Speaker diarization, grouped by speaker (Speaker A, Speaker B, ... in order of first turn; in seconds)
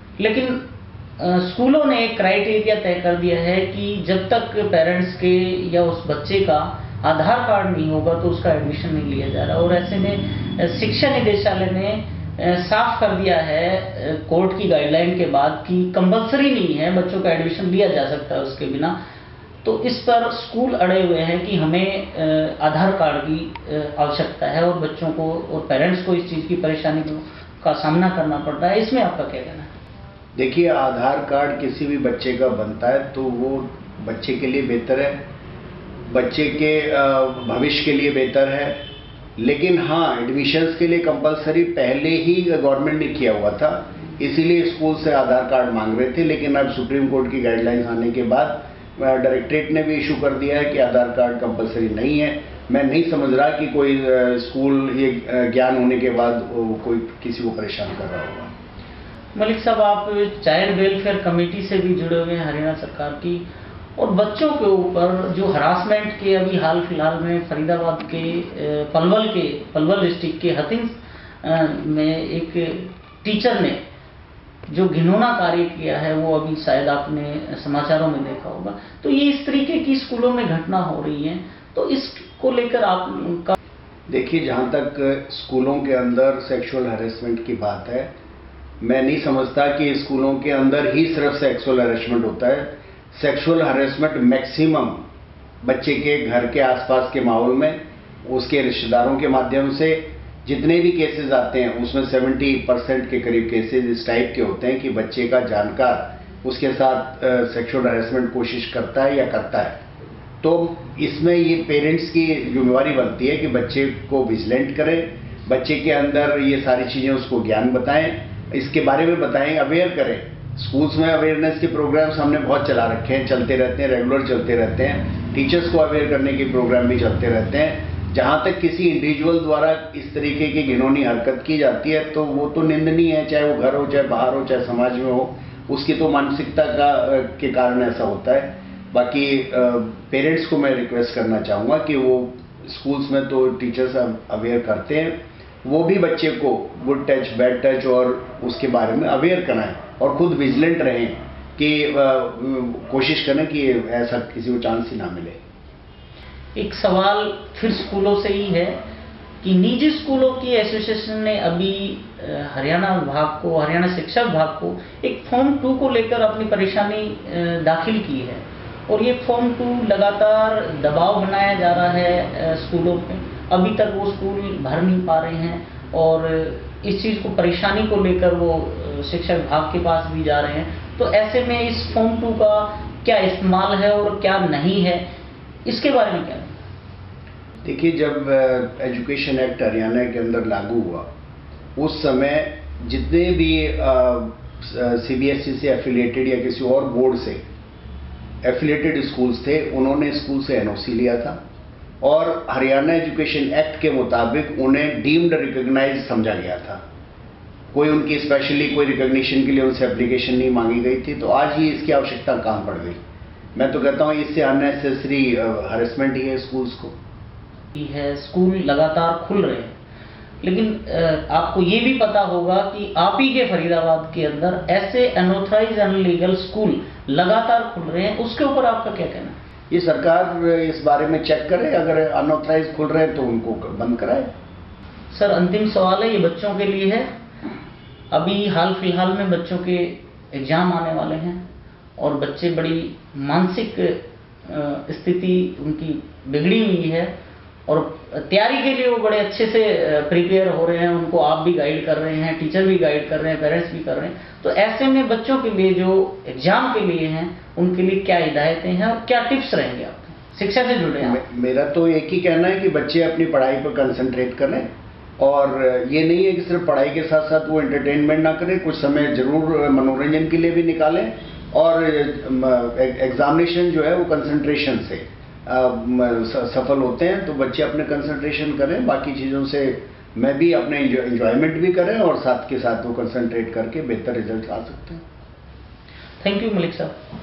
Speaker A: 0.2-0.6, 1.2-19.0, 19.6-29.7, 59.4-63.4, 64.0-73.8, 74.7-83.6, 156.6-158.8, 159.4-185.0, 185.7-186.6, 217.7-219.7, 220.4-229.4, 235.1-237.1, 238.1-241.4, 242.0-247.1, 247.7-261.2, 286.2-287.0
Speaker B: 30.4-35.2, 36.1-38.8, 39.4-58.5, 84.1-88.1, 88.8-95.0, 95.6-109.8, 110.4-155.4, 187.6-191.1, 191.8-197.4, 198.4-201.4, 202.0-206.8, 207.7-213.0, 213.6-216.9, 229.7-234.3, 261.0-264.7, 265.2-285.0